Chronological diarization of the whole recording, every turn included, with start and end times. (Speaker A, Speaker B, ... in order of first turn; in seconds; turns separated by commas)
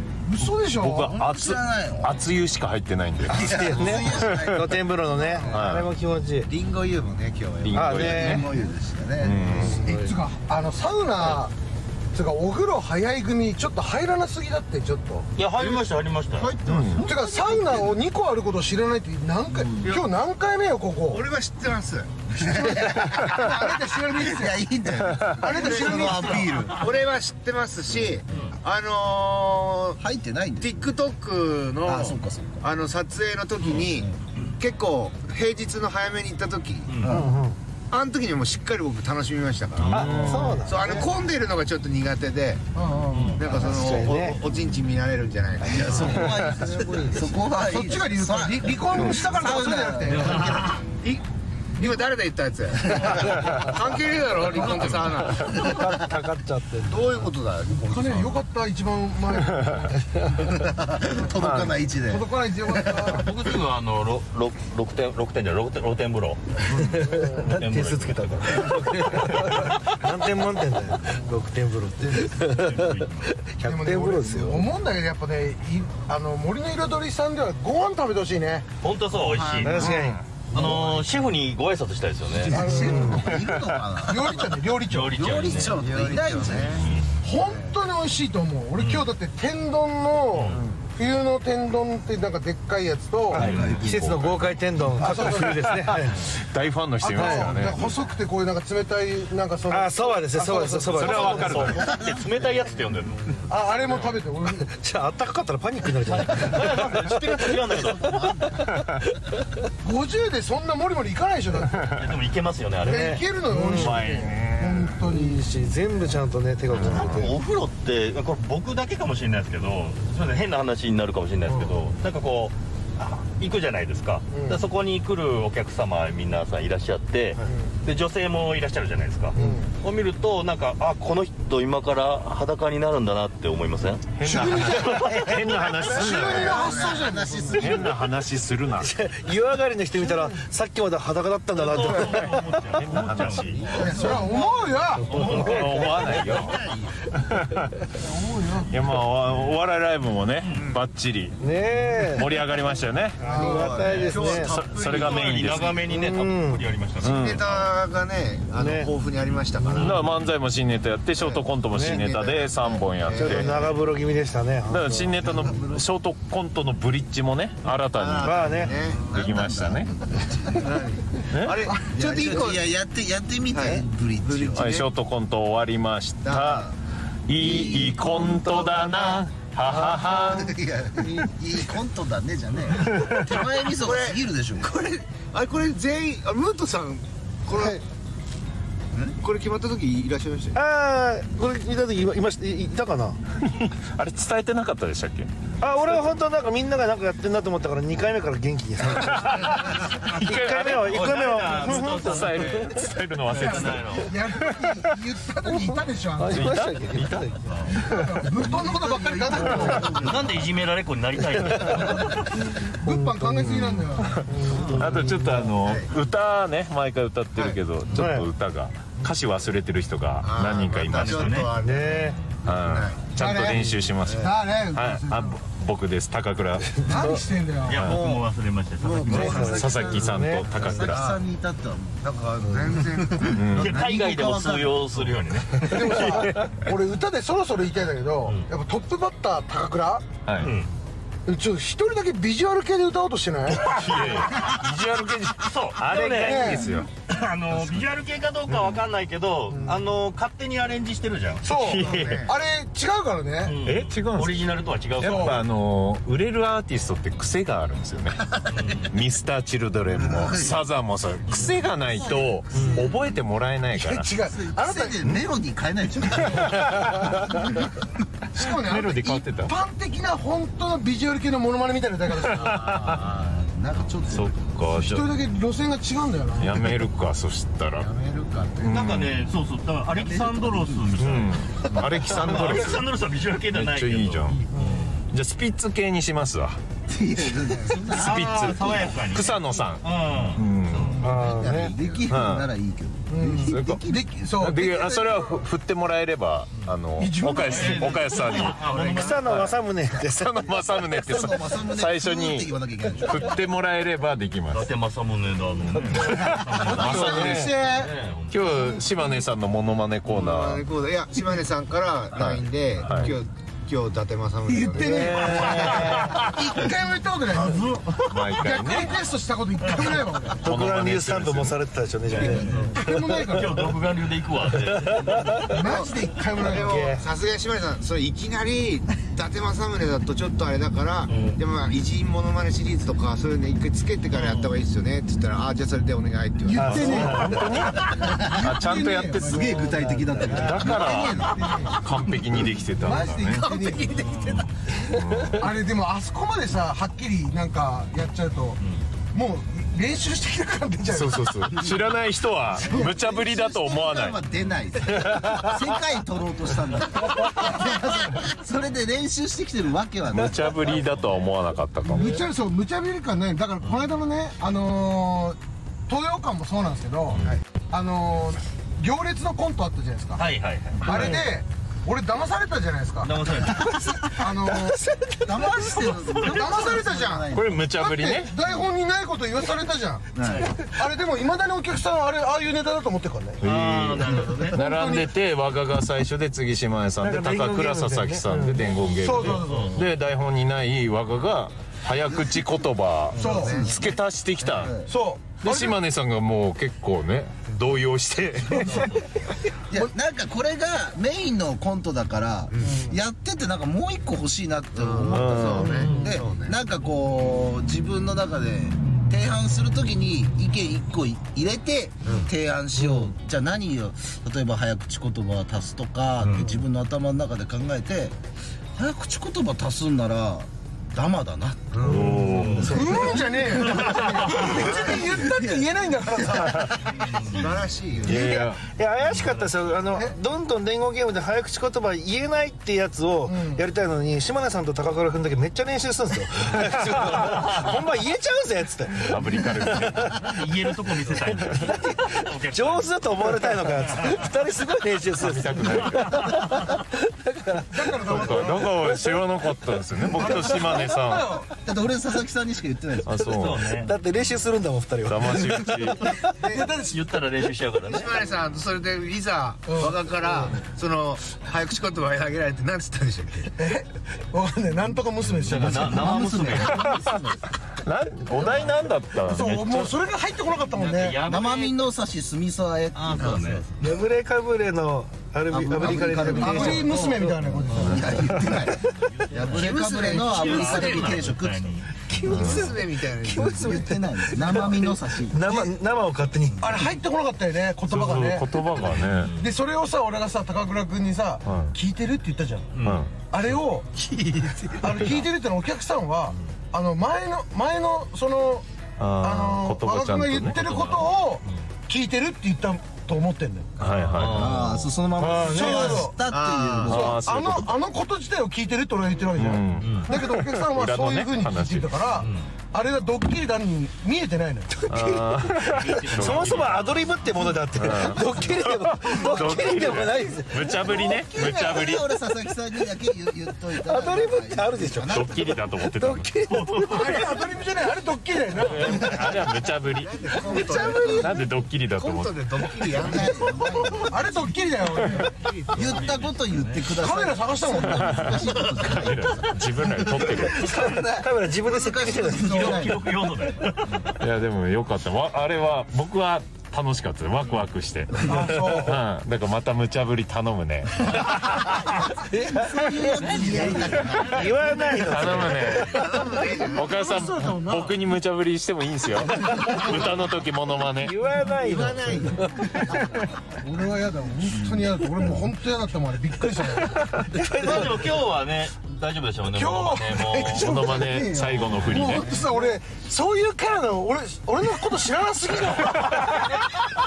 Speaker A: 0.2-1.1, Speaker B: 0.8-3.5, Speaker C: 0.9-2.1, Speaker C: 3.3-4.8, Speaker D: 3.3-6.5, Speaker E: 5.3-5.6, Speaker B: 5.4-5.9, Speaker E: 6.5-8.2, Speaker B: 7.6-8.4, Speaker D: 7.7-8.5, Speaker C: 7.9-9.5, Speaker B: 9.2-9.8, Speaker D: 9.5-10.2, Speaker A: 9.8-11.5, Speaker A: 12.1-15.3, Speaker F: 15.4-16.5, Speaker E: 15.6-17.1, Speaker B: 16.6-17.1, Speaker C: 16.7-17.9, Speaker A: 17.0-21.2, Speaker F: 19.8-20.1, Speaker E: 21.1-23.8, Speaker C: 22.5-23.4, Speaker A: 22.6-24.6, Speaker C: 24.1-26.8, Speaker A: 25.3-26.5, Speaker E: 25.5-30.0, Speaker F: 26.1-26.9, Speaker C: 30.0-30.9, Speaker E: 30.6-37.0, Speaker C: 31.8-32.6, Speaker F: 33.6-33.9, Speaker C: 33.9-34.2, Speaker F: 36.9-37.2, Speaker C: 37.0-37.3, Speaker D: 37.1-37.5, Speaker E: 37.9-42.7, Speaker F: 39.8-40.1, Speaker B: 39.8-40.6, Speaker D: 39.9-41.0, Speaker A: 42.7-43.3, Speaker F: 43.1-43.5, Speaker E: 43.3-46.4, Speaker D: 43.4-44.4, Speaker D: 45.6-47.3, Speaker C: 45.6-50.5, Speaker A: 47.5-50.6, Speaker E: 49.0-51.2, Speaker F: 50.1-50.8, Speaker E: 51.8-56.0, Speaker F: 53.0-53.5, Speaker B: 53.4-53.7, Speaker F: 54.5-55.3, Speaker A: 54.6-55.0, Speaker D: 55.4-57.3, Speaker E: 56.8-58.4, Speaker A: 57.8-59.9, Speaker B: 59.5-59.8, Speaker C: 60.7-63.2, Speaker B: 61.4-61.8, Speaker A: 62.1-63.3, Speaker F: 63.0-69.7, Speaker D: 66.7-74.7, Speaker F: 72.3-73.3, Speaker A: 73.6-78.7, Speaker F: 78.8-80.0, Speaker E: 79.1-80.1, Speaker D: 79.6-80.2, Speaker F: 80.5-82.7, Speaker A: 80.6-81.0, Speaker C: 82.3-84.6, Speaker A: 82.5-83.3, Speaker D: 82.8-83.3, Speaker A: 84.0-85.1, Speaker F: 84.9-85.8, Speaker C: 85.1-86.8, Speaker E: 85.5-87.8, Speaker F: 86.7-87.2, Speaker A: 87.2-93.5, Speaker F: 88.8-89.1, Speaker F: 90.3-90.6, Speaker D: 93.3-96.2, Speaker F: 93.3-94.2, Speaker C: 93.4-94.2, Speaker A: 95.0-95.6, Speaker B: 95.5-98.1, Speaker A: 97.0-101.9, Speaker D: 97.2-97.5, Speaker D: 99.7-101.8, Speaker B: 100.9-101.9, Speaker F: 101.1-103.3, Speaker C: 101.8-102.2, Speaker A: 103.5-104.7, Speaker B: 103.8-104.1, Speaker D: 104.5-107.4, Speaker F: 106.1-108.2, Speaker C: 107.8-108.4, Speaker A: 109.8-111.9, Speaker F: 112.0-114.4, Speaker D: 112.8-114.0, Speaker A: 112.8-115.4, Speaker B: 113.8-115.0, Speaker D: 115.0-117.4, Speaker B: 116.7-117.3, Speaker F: 116.7-135.5, Speaker A: 124.3-124.6, Speaker A: 127.5-127.7, Speaker A: 129.3-129.7, Speaker B: 134.2-136.7, Speaker A: 134.2-135.0, Speaker A: 135.8-137.7, Speaker C: 135.9-138.0, Speaker E: 136.5-137.0, Speaker B: 137.5-138.9, Speaker D: 138.8-142.4, Speaker F: 141.5-144.2, Speaker B: 142.7-143.9, Speaker E: 143.5-144.4, Speaker C: 143.5-145.2, Speaker A: 143.8-145.1, Speaker F: 145.0-146.1, Speaker D: 145.1-146.2, Speaker B: 145.2-146.6, Speaker C: 146.1-147.0, Speaker B: 147.3-147.6, Speaker A: 148.1-148.9, Speaker B: 148.7-151.4, Speaker E: 150.5-150.8, Speaker D: 151.4-152.3, Speaker B: 152.0-155.8, Speaker D: 153.2-154.5, Speaker E: 153.2-155.6, Speaker A: 153.2-153.7, Speaker F: 153.8-154.1, Speaker F: 154.8-157.2, Speaker D: 155.8-156.7, Speaker B: 157.0-157.7, Speaker E: 157.0-160.0, Speaker D: 158.5-158.9, Speaker F: 159.7-160.0, Speaker B: 159.8-163.8, Speaker E: 161.2-163.6, Speaker D: 161.7-162.0, Speaker D: 163.1-165.5, Speaker B: 164.7-169.9, Speaker C: 165.2-165.8, Speaker E: 167.9-169.2, Speaker D: 168.2-168.7, Speaker C: 168.6-170.7, Speaker E: 170.5-172.6, Speaker B: 171.3-171.6, Speaker A: 171.6-172.6, Speaker C: 171.9-174.7, Speaker E: 173.5-174.9, Speaker B: 174.5-176.7, Speaker E: 176.2-176.7, Speaker B: 177.3-180.6, Speaker C: 177.4-178.7, Speaker E: 178.7-179.2, Speaker C: 179.7-184.7, Speaker E: 183.7-187.8, Speaker E: 189.2-190.6, Speaker D: 190.5-193.2, Speaker B: 193.4-195.3, Speaker D: 195.6-202.6, Speaker B: 198.9-205.0, Speaker F: 200.7-204.2, Speaker A: 203.4-206.6, Speaker D: 205.5-208.1, Speaker B: 206.3-207.2, Speaker F: 207.4-207.7, Speaker A: 207.7-210.0, Speaker C: 208.3-210.5, Speaker E: 209.4-209.9, Speaker F: 209.8-212.5, Speaker D: 211.4-211.9, Speaker D: 212.7-213.2, Speaker A: 212.7-214.2, Speaker B: 213.4-221.5, Speaker D: 214.2-215.5, Speaker F: 214.4-215.0, Speaker E: 215.6-215.9, Speaker E: 217.3-217.6, Speaker D: 217.9-218.3, Speaker E: 220.2-224.3, Speaker F: 220.9-221.5, Speaker D: 221.6-222.2, Speaker B: 222.4-227.1, Speaker A: 223.2-223.6, Speaker A: 224.1-225.4, Speaker A: 226.8-227.9, Speaker F: 227.6-229.6, Speaker B: 227.8-228.0, Speaker E: 227.9-228.2, Speaker C: 228.8-232.1, Speaker D: 229.1-230.6, Speaker B: 229.2-231.1, Speaker E: 229.2-229.5, Speaker E: 230.6-231.2, Speaker E: 232.0-233.4, Speaker C: 232.7-234.8, Speaker B: 233.3-233.8, Speaker F: 233.6-235.9, Speaker A: 235.6-240.1, Speaker B: 235.7-236.6, Speaker B: 240.2-240.5, Speaker F: 240.4-240.7, Speaker A: 241.2-243.6, Speaker B: 243.5-246.9, Speaker F: 243.9-244.3, Speaker F: 245.4-252.0, Speaker A: 246.2-246.7, Speaker B: 247.5-247.8, Speaker B: 248.5-248.8, Speaker A: 249.5-249.8, Speaker A: 251.4-253.6, Speaker B: 251.5-252.2, Speaker E: 251.6-252.3, Speaker F: 253.4-255.4, Speaker B: 253.6-258.3, Speaker A: 255.0-255.4, Speaker F: 258.5-258.9, Speaker B: 258.9-264.1, Speaker C: 259.9-260.6, Speaker F: 261.3-261.6, Speaker C: 261.9-263.0, Speaker A: 263.7-265.2, Speaker C: 264.2-267.6, Speaker B: 266.2-267.6, Speaker A: 268.3-272.6, Speaker B: 268.4-269.5, Speaker B: 272.1-273.0, Speaker E: 272.3-273.2, Speaker C: 273.1-274.3, Speaker B: 274.1-275.1, Speaker A: 274.7-276.7, Speaker B: 276.4-277.9, Speaker E: 277.8-278.8, Speaker B: 278.6-279.2, Speaker F: 278.7-281.4, Speaker C: 280.0-280.9, Speaker B: 281.0-282.8, Speaker F: 282.0-285.1, Speaker B: 283.5-284.4, Speaker A: 284.6-284.9, Speaker B: 285.1-286.6, Speaker C: 286.9-288.8, Speaker E: 287.4-288.0, Speaker F: 287.9-291.0, Speaker B: 287.9-291.0, Speaker E: 291.0-292.1, Speaker C: 291.0-294.0, Speaker D: 291.0-291.7, Speaker B: 292.1-292.4, Speaker A: 293.1-295.4, Speaker B: 293.4-293.8, Speaker B: 294.4-304.7, Speaker A: 297.0-298.2, Speaker F: 297.4-299.3, Speaker E: 298.2-298.4, Speaker D: 298.8-300.4, Speaker C: 300.9-303.4, Speaker F: 304.5-308.8, Speaker D: 306.0-307.6, Speaker B: 306.1-307.6, Speaker E: 307.0-307.9, Speaker B: 308.3-310.6, Speaker E: 310.1-316.2, Speaker B: 312.1-313.1, Speaker C: 314.5-315.6, Speaker D: 314.8-316.2, Speaker B: 314.8-315.8, Speaker F: 315.3-316.5, Speaker A: 316.2-320.4, Speaker B: 318.0-319.0, Speaker B: 320.4-321.6, Speaker D: 320.4-323.3, Speaker F: 322.1-325.6, Speaker A: 322.2-323.6, Speaker A: 325.5-326.7, Speaker E: 325.6-337.9, Speaker D: 326.5-327.1, Speaker F: 331.1-331.4, Speaker F: 334.1-334.5, Speaker D: 336.5-337.5, Speaker B: 336.6-339.4, Speaker C: 337.9-338.5, Speaker A: 338.3-339.6, Speaker C: 339.3-341.0, Speaker D: 339.3-340.7, Speaker E: 339.4-342.5, Speaker B: 340.3-343.4, Speaker F: 341.0-341.4, Speaker A: 341.3-341.8, Speaker A: 342.7-343.9, Speaker F: 342.8-343.2, Speaker E: 343.1-344.4, Speaker F: 343.8-344.6, Speaker B: 344.8-345.5, Speaker A: 345.3-348.6, Speaker A: 349.1-351.5, Speaker B: 350.9-354.2, Speaker A: 352.6-353.0, Speaker C: 352.8-360.7, Speaker F: 354.3-354.7, Speaker B: 354.8-355.6, Speaker A: 357.3-357.7, Speaker B: 360.1-362.2, Speaker F: 360.7-361.2, Speaker A: 361.9-370.2, Speaker F: 363.6-363.9, Speaker F: 367.1-367.3, Speaker F: 370.2-371.1, Speaker A: 370.8-373.1, Speaker F: 373.0-373.7, Speaker A: 374.2-374.8, Speaker D: 375.0-375.5, Speaker C: 375.2-377.6, Speaker F: 375.8-376.6, Speaker A: 376.3-380.1, Speaker B: 377.3-378.3, Speaker C: 380.1-380.5, Speaker A: 380.7-383.4, Speaker F: 383.4-384.6, Speaker B: 383.4-394.8, Speaker A: 384.5-385.1, Speaker D: 387.0-388.6, Speaker A: 389.0-389.8, Speaker F: 389.2-389.9, Speaker A: 393.1-393.6, Speaker E: 393.2-393.8, Speaker C: 393.5-394.9, Speaker A: 394.8-395.8, Speaker B: 395.4-398.9, Speaker C: 399.7-418.2, Speaker E: 404.7-406.6, Speaker B: 405.1-405.9, Speaker F: 405.6-406.1, Speaker F: 416.2-416.5, Speaker C: 418.8-421.9, Speaker E: 421.7-422.6, Speaker B: 421.9-423.1, Speaker A: 422.1-426.6, Speaker F: 422.1-422.9, Speaker C: 422.6-423.2, Speaker D: 422.6-423.1, Speaker F: 423.5-424.6, Speaker C: 424.2-426.7, Speaker B: 426.4-426.7, Speaker F: 426.8-428.1, Speaker E: 427.3-428.1, Speaker D: 428.0-440.2, Speaker B: 428.0-428.6, Speaker F: 429.0-429.8, Speaker A: 433.3-433.6, Speaker F: 437.1-437.8, Speaker B: 439.0-440.2, Speaker F: 440.1-444.2, Speaker D: 441.3-448.3, Speaker B: 445.2-446.2, Speaker A: 447.7-448.8, Speaker B: 448.0-451.4, Speaker A: 450.1-451.5, Speaker C: 451.5-453.2, Speaker B: 453.1-453.7, Speaker F: 453.2-453.9, Speaker D: 453.7-456.3, Speaker B: 455.1-456.2, Speaker A: 456.4-457.0, Speaker F: 456.6-458.2, Speaker E: 457.9-463.6, Speaker A: 459.7-460.0, Speaker A: 463.6-466.2, Speaker F: 465.4-467.3, Speaker C: 465.5-467.4, Speaker B: 467.8-469.9, Speaker A: 469.3-471.2, Speaker F: 470.7-471.8, Speaker C: 471.2-473.7, Speaker F: 472.9-473.8, Speaker D: 473.8-477.1, Speaker C: 475.5-485.5, Speaker E: 475.9-476.3, Speaker A: 476.4-478.3, Speaker F: 478.4-481.9, Speaker E: 479.3-481.3, Speaker D: 482.1-486.9, Speaker E: 482.2-483.8, Speaker B: 482.3-482.6, Speaker A: 485.4-485.7, Speaker A: 486.6-488.6, Speaker B: 487.9-489.4, Speaker F: 488.7-489.5, Speaker A: 489.4-493.9, Speaker B: 491.4-491.8, Speaker F: 492.7-493.0, Speaker B: 492.8-493.1, Speaker F: 494.2-494.9, Speaker A: 494.8-498.6, Speaker B: 494.9-495.3, Speaker B: 499.0-500.9, Speaker A: 499.2-503.8, Speaker F: 500.6-501.6, Speaker B: 503.8-504.6, Speaker F: 504.0-504.9, Speaker C: 504.2-507.3, Speaker D: 505.2-506.1, Speaker A: 505.4-506.2, Speaker E: 506.3-507.1, Speaker B: 506.8-507.7, Speaker A: 507.1-514.8, Speaker B: 509.4-512.0, Speaker F: 509.8-510.1, Speaker F: 512.2-512.5, Speaker D: 514.7-515.5, Speaker B: 514.9-516.7, Speaker F: 515.6-517.6, Speaker D: 516.1-521.0, Speaker B: 517.7-522.0, Speaker C: 519.1-519.7, Speaker C: 520.8-525.5, Speaker D: 523.8-527.0, Speaker B: 525.1-526.3, Speaker F: 526.5-527.3, Speaker A: 526.8-529.1, Speaker B: 528.6-530.1, Speaker E: 528.9-529.3, Speaker E: 529.9-531.1, Speaker C: 530.3-531.3, Speaker A: 530.3-531.5, Speaker B: 531.0-532.4, Speaker E: 531.9-533.5, Speaker C: 532.9-534.5, Speaker A: 533.5-535.3, Speaker E: 535.0-536.0, Speaker F: 535.2-536.9, Speaker C: 535.7-539.6, Speaker A: 536.9-538.2, Speaker B: 537.8-540.8, Speaker F: 538.3-539.5, Speaker D: 540.0-543.0, Speaker C: 540.5-543.0, Speaker F: 542.2-544.2, Speaker B: 544.2-551.1, Speaker A: 548.2-549.0, Speaker D: 548.6-548.9, Speaker D: 552.2-556.4, Speaker C: 552.3-554.5, Speaker F: 553.2-556.0, Speaker E: 553.3-553.9, Speaker B: 555.0-556.1, Speaker E: 555.9-557.0, Speaker B: 556.7-561.1, Speaker A: 556.8-558.0, Speaker D: 561.0-562.9, Speaker C: 561.5-563.2, Speaker E: 561.5-562.5, Speaker A: 563.6-567.2, Speaker D: 567.3-567.9, Speaker F: 567.5-570.9, Speaker A: 569.4-571.1, Speaker B: 570.5-572.5, Speaker C: 570.9-572.3, Speaker A: 571.9-576.4, Speaker B: 575.7-576.5